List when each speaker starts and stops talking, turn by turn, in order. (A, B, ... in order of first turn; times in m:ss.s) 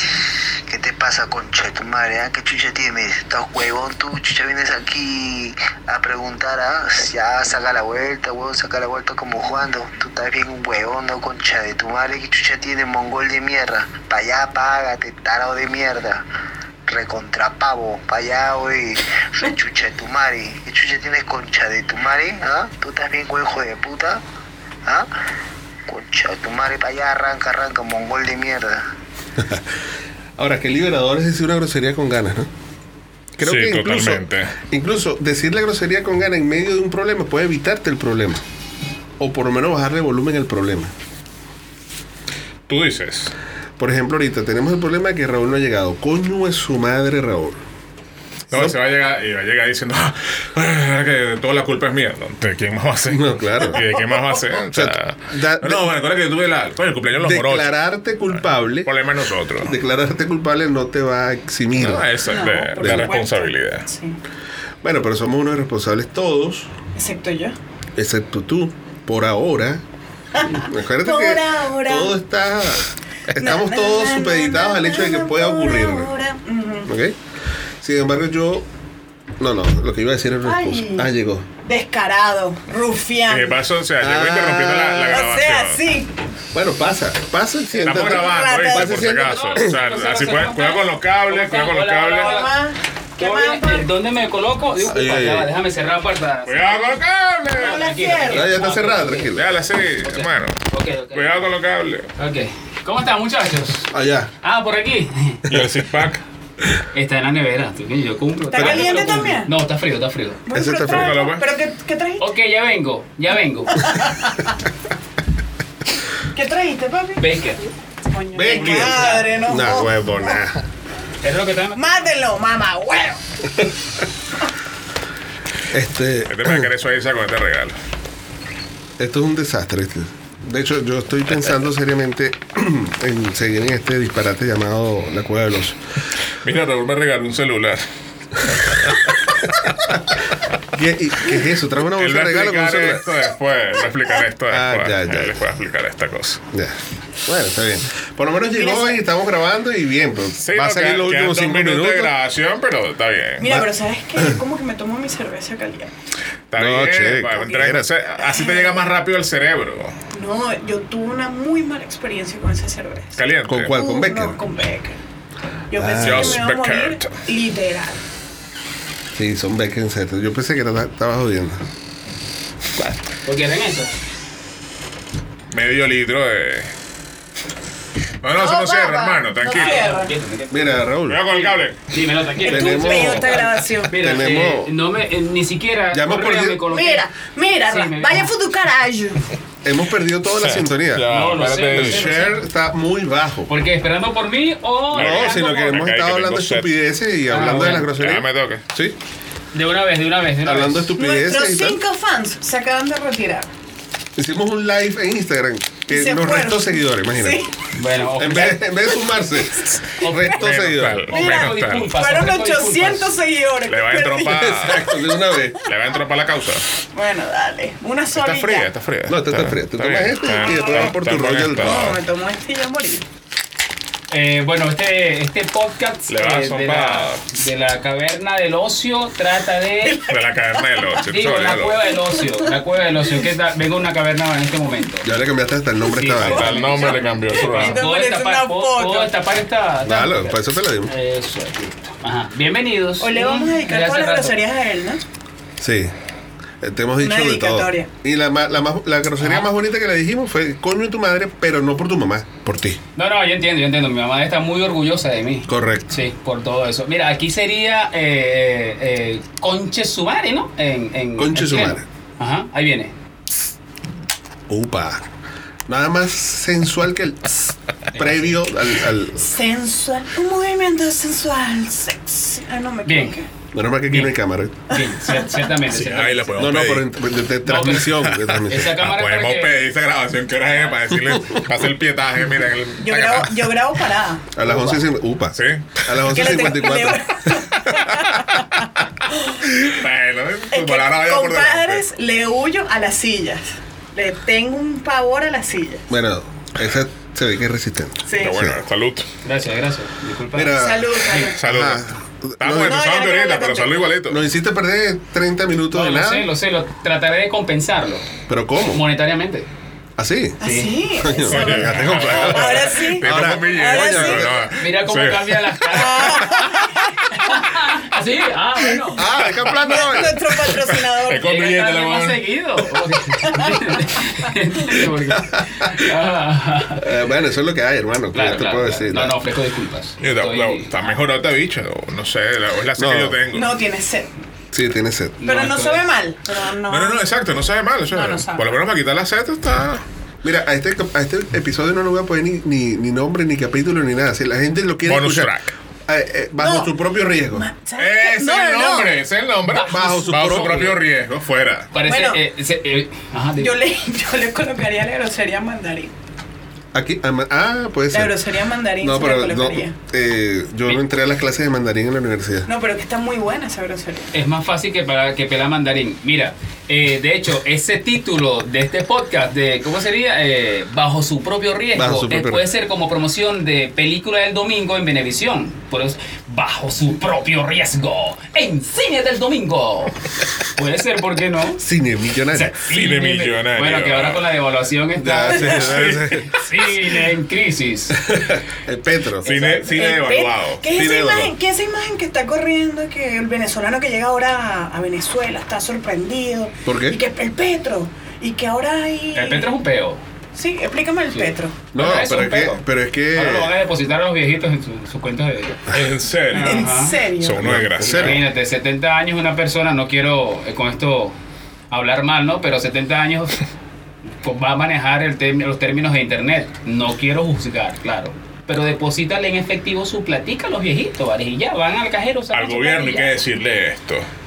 0:00.7-0:16.2 A
0:16.9-0:24.2 A
0:25.9-0:28.8 A
0:29.4-0:29.7 B
0:30.4-0:32.5 B
0:33.4-0:38.4 B
0:33.4-0:34.6 C
0:39.2-0:40.9 B
0:42.7-0:43.3 C
0:43.8-0:47.6 B
0:48.5-0:57.8 C
0:48.5-0:48.8 B
0:53.1-0:53.9 B
0:54.7-0:55.9 B
0:57.2-0:58.9 B
0:58.4-0:59.8 C
0:59.6-1:03.2 B
1:01.8-1:03.9 C
1:02.3-1:04.2 D
1:04.8-1:06.7 B
1:07.0-1:07.6 D
1:08.0-1:09.8 B
1:10.4-1:12.2 D
1:10.5-1:16.1 B
1:13.4-1:16.9 D
1:16.9-1:17.2 B
1:17.8-1:18.7 B
1:19.4-1:21.5 B
1:20.4-1:21.1 D
1:21.6-1:23.6 D
1:23.3-1:25.8 C
1:24.0-1:25.2 B
1:25.1-1:26.1 D
1:26.5-1:29.7 B
1:27.8-1:32.4 C
1:27.9-1:29.1 D
1:29.2-1:32.5 E
1:32.2-1:33.9 D
1:33.2-1:37.0 E
1:34.8-1:35.5 B
1:36.5-1:37.8 C
1:37.5-1:38.6 D
1:37.5-1:39.4 E
1:38.3-1:39.5 B
1:39.3-1:40.6 C
1:40.0-1:41.5 E
1:41.1-1:42.1 C
1:42.2-1:43.9 E
1:43.9-1:44.3 B
1:44.4-1:45.4 E
1:45.5-1:46.2 C
1:46.9-1:50.4 E
1:48.5-1:49.5 D
1:50.5-1:52.2 D
1:50.5-1:51.2 B
1:50.8-1:51.5 C
1:52.2-1:53.9 E
1:53.8-1:54.5 D
1:56.3-1:57.2 D
1:57.2-1:57.6 E
1:58.1-2:00.0 D
1:58.3-2:00.6 B
1:58.5-1:59.4 E
2:01.2-2:01.8 E
2:01.8-2:03.2 D
2:05.7-2:06.7 B
2:06.3-2:07.8 C
2:09.0-2:15.8 B
2:16.4-2:17.8 C
2:18.5-2:19.0 C
2:20.7-2:23.2 B
2:22.0-2:26.4 C
2:24.5-2:25.4 B
2:26.5-2:32.1 B
2:28.5-2:29.0 D
2:30.4-2:33.5 C
2:33.4-2:35.9 D
2:33.4-2:34.4 B
2:36.5-2:39.9 C
2:36.6-2:37.9 B
2:38.2-2:38.8 D
2:40.1-2:45.0 D
2:43.2-2:43.8 C
2:43.5-2:44.4 B
2:45.7-2:48.0 D
2:45.8-2:46.4 B
2:46.0-2:47.1 C
2:49.2-2:51.6 B
2:53.2-2:53.9 E
2:55.5-2:56.7 C
2:58.2-2:59.9 C
2:58.4-3:00.1 D
2:59.5-3:07.1 E
3:00.5-3:01.2 B
3:01.1-3:01.8 C
3:02.4-3:04.0 D
3:02.5-3:04.7 B
3:05.9-3:06.6 B
3:06.6-3:09.3 D
3:07.7-3:08.3 E
3:09.6-3:13.5 B
3:10.4-3:12.1 C
3:11.1-3:12.4 E
3:13.5-3:15.7 E
3:15.0-3:16.7 C
3:15.0-3:19.0 B
3:17.3-3:17.9 E
3:17.8-3:18.6 C
3:19.5-3:20.9 E
3:20.4-3:21.8 B
3:21.0-3:23.5 D
3:24.2-3:27.4 B
3:25.9-3:27.5 D
3:27.8-3:28.7 E
3:28.2-3:31.0 B
3:30.0-3:33.1 E
3:30.3-3:31.9 C
3:31.1-3:35.0 D
3:33.7-3:35.0 C
3:34.3-3:35.6 B
3:35.6-3:36.6 C
3:36.9-3:38.7 D
3:38.2-3:42.0 C
3:39.1-3:42.0 B
3:40.4-3:40.9 D
3:41.6-3:43.0 D
3:44.1-3:50.0 E
3:46.1-3:47.2 C
3:49.8-3:50.6 D
3:50.1-3:51.9 C
3:51.1-3:55.1 E
3:52.2-3:52.5 D
3:55.0-3:56.6 B
3:55.9-4:04.4 E
3:56.2-3:57.8 C
3:56.4-3:59.1 D
3:59.8-4:00.9 B
4:03.0-4:05.0 D
4:05.6-4:05.9 B
4:06.6-4:12.8 B
4:07.0-4:07.9 D
4:09.2-4:09.5 E
4:13.0-4:22.9 E
4:15.5-4:15.9 B
4:21.2-4:21.8 B
4:24.5-4:25.1 B
4:25.7-4:29.3 B
4:27.9-4:28.4 E
4:29.2-4:33.3 D
4:32.9-4:33.2 E
4:33.5-4:34.6 B
4:33.9-4:34.2 E
4:34.7-4:36.4 E
4:35.0-4:35.4 D
4:35.7-4:36.9 C
4:36.4-4:38.8 B
4:37.4-4:39.6 E
4:38.7-4:43.6 C
4:42.8-4:44.8 D
4:44.4-4:47.4 B
4:45.3-4:45.8 C
4:46.1-4:49.4 D
4:49.6-4:51.8 C
4:50.5-4:55.9 D
4:55.9-4:58.6 B
4:58.1-4:58.5 D
4:58.2-4:59.1 C
4:59.2-5:00.6 E
5:00.3-5:02.9 B
5:00.5-5:01.4 D
5:01.4-5:04.2 C
5:02.6-5:03.9 D
5:04.1-5:06.3 B
5:05.7-5:08.1 E
5:08.3-5:08.8 B
5:08.6-5:09.5 E
5:10.0-5:10.4 B
5:10.4-5:14.3 D
5:10.4-5:10.7 E
5:11.0-5:14.5 B
5:11.2-5:16.4 C
5:14.6-5:16.3 E
5:15.7-5:17.4 D
5:17.1-5:19.1 E
5:18.9-5:20.3 B
5:19.6-5:21.4 D
5:19.9-5:22.2 C
5:21.2-5:26.9 E
5:23.2-5:23.5 D
5:25.2-5:25.7 B
5:26.8-5:29.2 B
5:28.1-5:31.0 E
5:30.0-5:33.6 C
5:32.8-5:33.2 B
5:33.3-5:34.1 D
5:34.5-5:35.2 B
5:35.2-5:35.8 E
5:35.2-5:37.0 D
5:36.7-5:39.8 C
5:37.9-5:38.6 D
5:40.2-5:45.3 B
5:44.9-5:45.5 C
5:45.9-5:47.5 B
5:46.4-5:46.7 D
5:47.3-5:49.0 D
5:47.8-5:51.7 C
5:49.5-5:50.8 B
5:51.7-5:53.6 E
5:51.8-5:52.2 D
5:53.4-5:55.9 D
5:56.7-5:58.2 B
5:57.9-5:59.8 D
5:58.8-6:02.5 B
6:02.5-6:04.1 D
6:04.1-6:21.6 E
6:11.8-6:12.5 B
6:21.6-6:22.6 B
6:22.3-6:28.3 E
6:22.7-6:24.2 C
6:25.0-6:26.4 B
6:25.6-6:26.0 C
6:28.0-6:29.4 B
6:29.2-6:29.8 E
6:29.2-6:30.8 C
6:29.7-6:39.5 D
6:30.7-6:31.3 B
6:36.6-6:37.0 B
6:39.1-6:40.0 E
6:40.4-6:41.6 D
6:41.1-6:42.6 E
6:41.7-6:43.5 B
6:43.1-6:45.6 E
6:45.7-6:48.2 C
6:46.3-6:47.0 E
6:46.4-6:47.5 D
6:47.4-6:48.2 B
6:47.8-6:51.1 E
6:51.7-6:53.4 E
6:54.2-7:03.2 E
7:02.3-7:04.1 C